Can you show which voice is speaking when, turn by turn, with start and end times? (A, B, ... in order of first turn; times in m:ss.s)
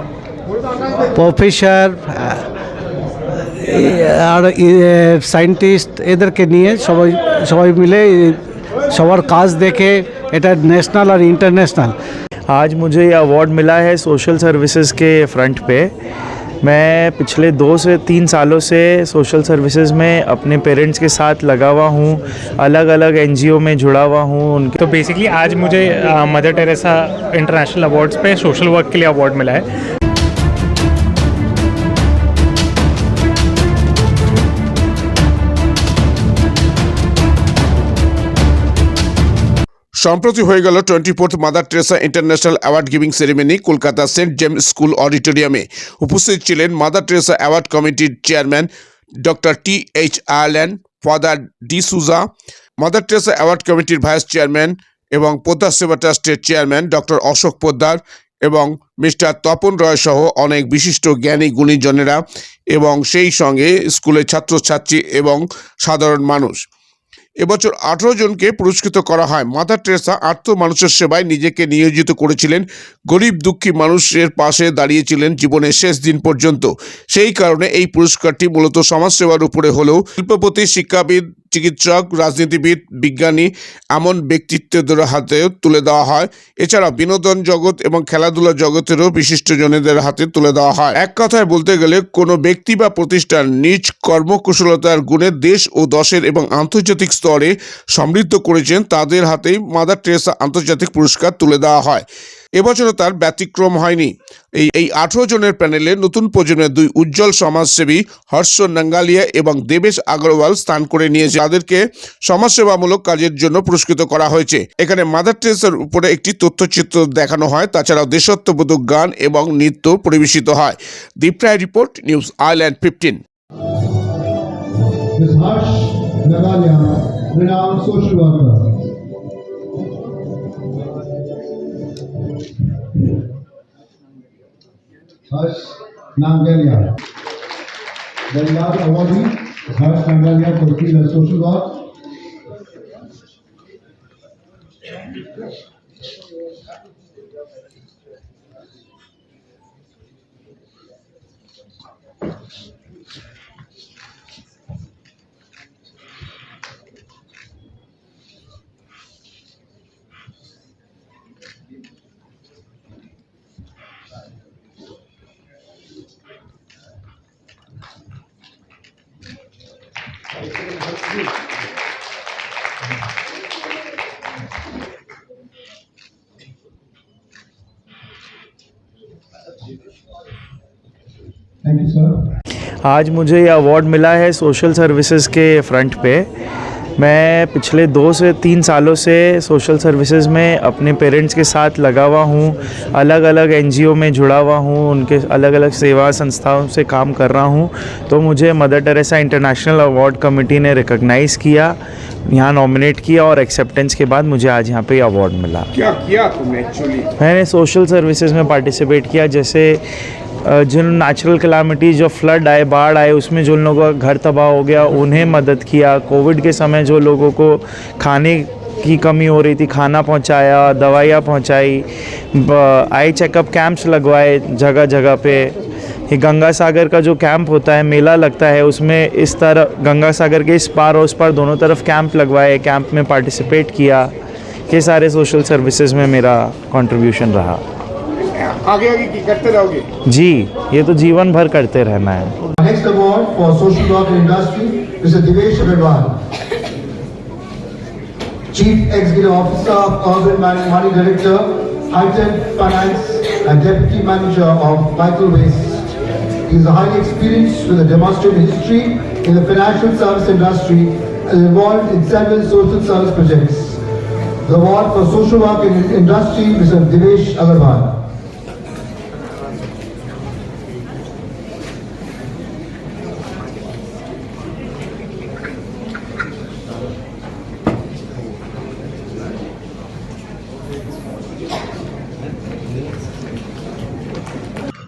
0:01.1-0:02.4 A
0:03.6-0:12.0 A
0:12.5-0:15.9 B
0:16.6-0:24.8 B
0:24.8-0:29.6 C
0:40.0-0:48.7 D
0:49.2-0:52.3 D
0:52.8-1:06.6 D
1:07.4-1:42.0 D
1:42.6-2:03.2 D
2:05.2-2:08.8 E
2:15.3-2:16.9 E
2:18.3-2:21.9 E
3:01.6-3:02.2 E
3:02.8-3:06.3 B
3:07.0-3:21.8 B
3:22.3-3:25.7 B
3:25.7-3:27.0 D
3:27.2-3:29.8 B
3:30.4-3:45.5 B
3:46.1-3:54.1 B
3:54.7-3:57.6 B
3:58.4-3:59.8 D
4:00.1-4:02.3 B
4:02.6-4:06.2 E
4:08.5-4:15.9 E
4:16.5-4:23.8 E
4:24.4-4:28.0 E